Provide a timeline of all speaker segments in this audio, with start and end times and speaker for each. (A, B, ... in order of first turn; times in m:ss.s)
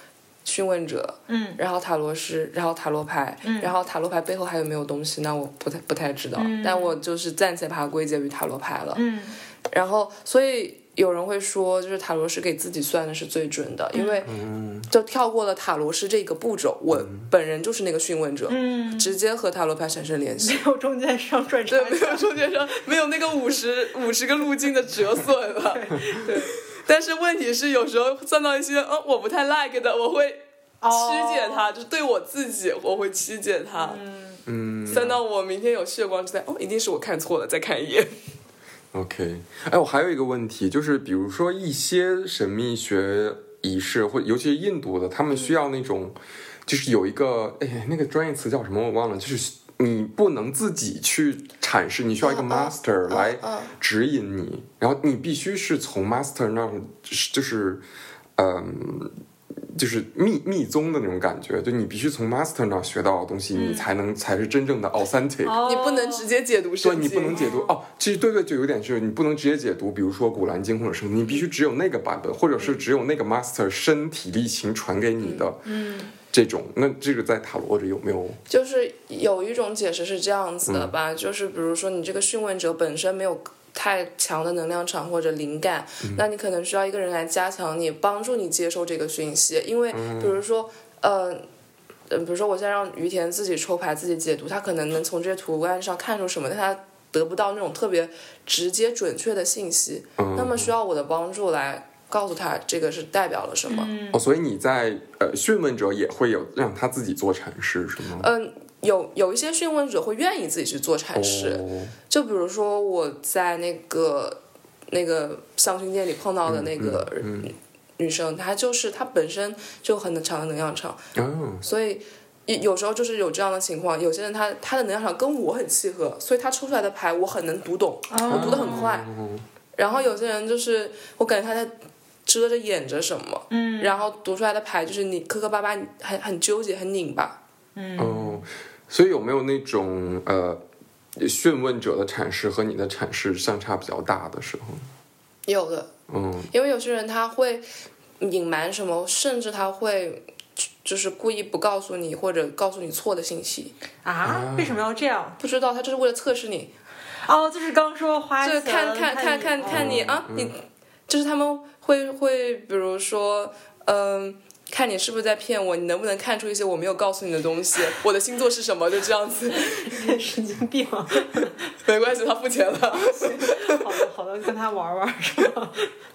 0:00.4-0:09.0 A
0:01.3-0:01.6 B
0:03.4-0:03.7 B
0:06.4-0:07.0 B
0:08.9-0:09.4 B
0:09.7-0:14.3 A
0:13.9-0:14.2 B
0:14.2-0:14.9 C
0:14.9-0:20.6 A
0:16.9-0:17.3 C
0:18.5-0:19.2 B
0:20.4-0:22.4 B
0:21.7-0:34.0 A
0:25.6-0:26.5 B
0:30.8-0:31.7 B
0:33.8-0:35.2 B
0:34.5-0:35.2 C
0:34.9-0:38.1 A
0:38.9-0:46.1 C
0:46.6-0:57.8 C
0:52.2-0:53.7 A
0:58.4-0:59.1 C
0:59.7-1:05.6 C
1:03.6-1:03.9 B
1:05.4-1:06.3 B
1:05.6-1:07.5 A
1:06.8-1:15.6 C
1:07.3-1:07.7 B
1:15.2-1:15.5 A
1:15.6-1:16.1 B
1:16.3-1:18.4 C
1:18.5-1:31.4 A
1:20.6-1:20.9 C
1:29.9-1:30.4 C
1:32.1-1:43.9 A
1:40.2-1:40.7 C
1:43.7-1:44.2 B
1:44.1-1:48.3 C
1:48.2-2:01.0 A
1:51.1-1:51.9 C
1:56.5-1:57.5 C
2:01.2-2:01.6 C
2:01.6-2:09.1 A
2:08.1-2:08.9 B
2:08.3-2:09.4 C
2:09.8-2:11.7 A
2:12.2-2:17.4 A
2:13.5-2:14.0 B
2:17.8-2:18.4 B
2:18.0-2:20.6 C
2:21.2-2:24.8 C
2:25.5-2:25.9 A
2:26.1-2:26.5 C
2:26.5-2:27.6 A
2:28.2-2:33.7 A
2:34.0-2:35.4 B
2:34.2-2:34.8 C
2:35.4-2:36.7 A
2:37.2-2:40.1 B
2:38.4-2:50.2 A
2:39.7-2:40.5 C
2:49.5-2:51.7 B
2:51.3-2:53.8 A
2:52.9-2:55.9 B